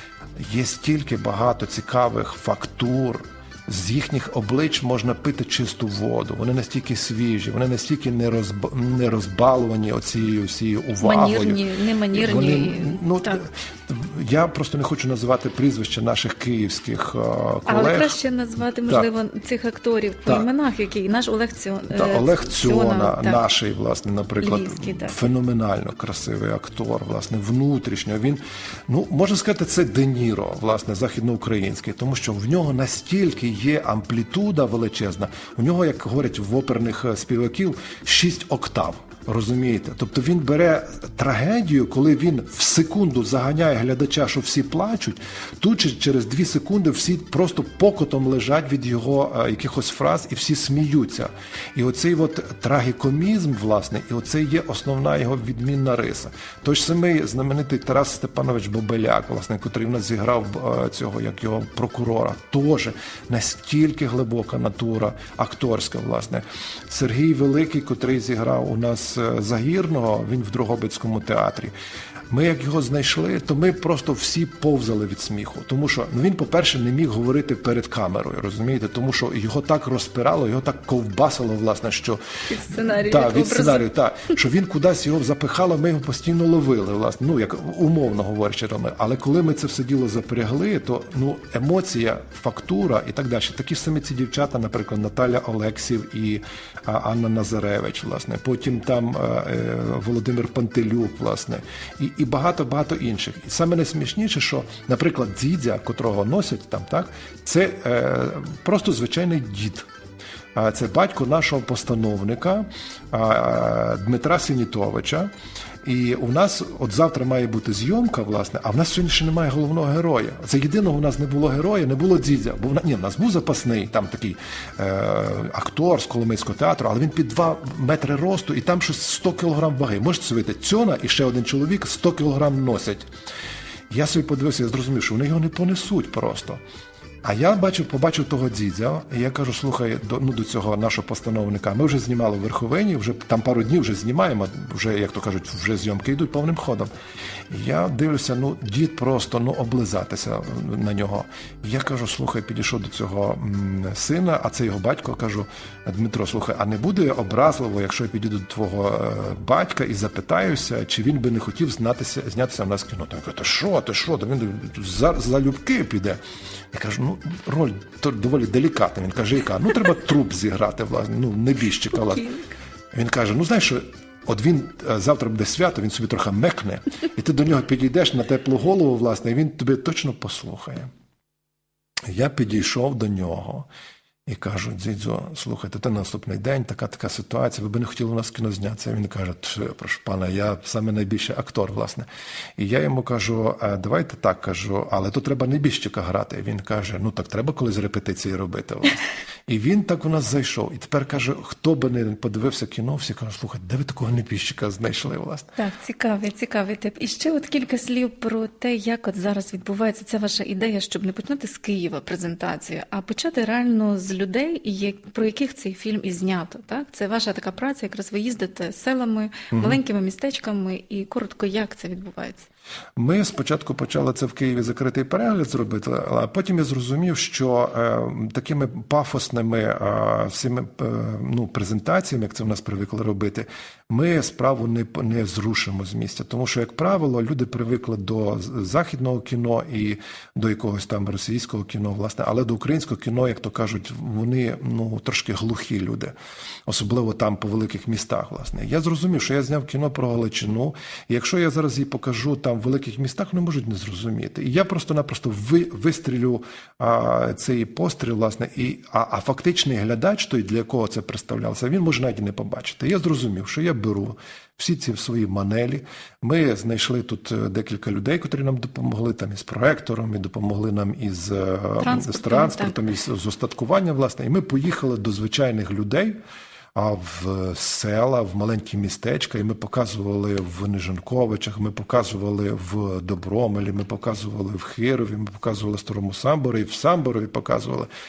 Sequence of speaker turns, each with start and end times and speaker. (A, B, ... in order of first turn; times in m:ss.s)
0:00.4-0:11.6 A
0:11.0-0:13.4 B
0:12.1-0:18.2 A
0:17.7-0:23.4 B
0:21.9-1:11.7 A
0:24.4-0:25.2 B
1:12.3-1:49.9 A
1:22.5-1:23.9 B
1:50.5-1:55.3 A
1:55.8-2:13.1 A
2:13.9-2:16.6 A
2:17.2-2:26.9 A
2:27.5-2:46.2 A
2:46.7-2:52.4 A
2:52.9-3:00.9 A
3:02.1-3:03.7 A
3:04.2-3:12.0 A
3:12.6-3:25.5 A
3:25.6-3:42.5 B
3:39.5-3:39.8 A
3:43.0-4:06.1 A
4:06.6-4:36.2 A
4:31.8-4:32.8 B
4:36.7-4:47.9 A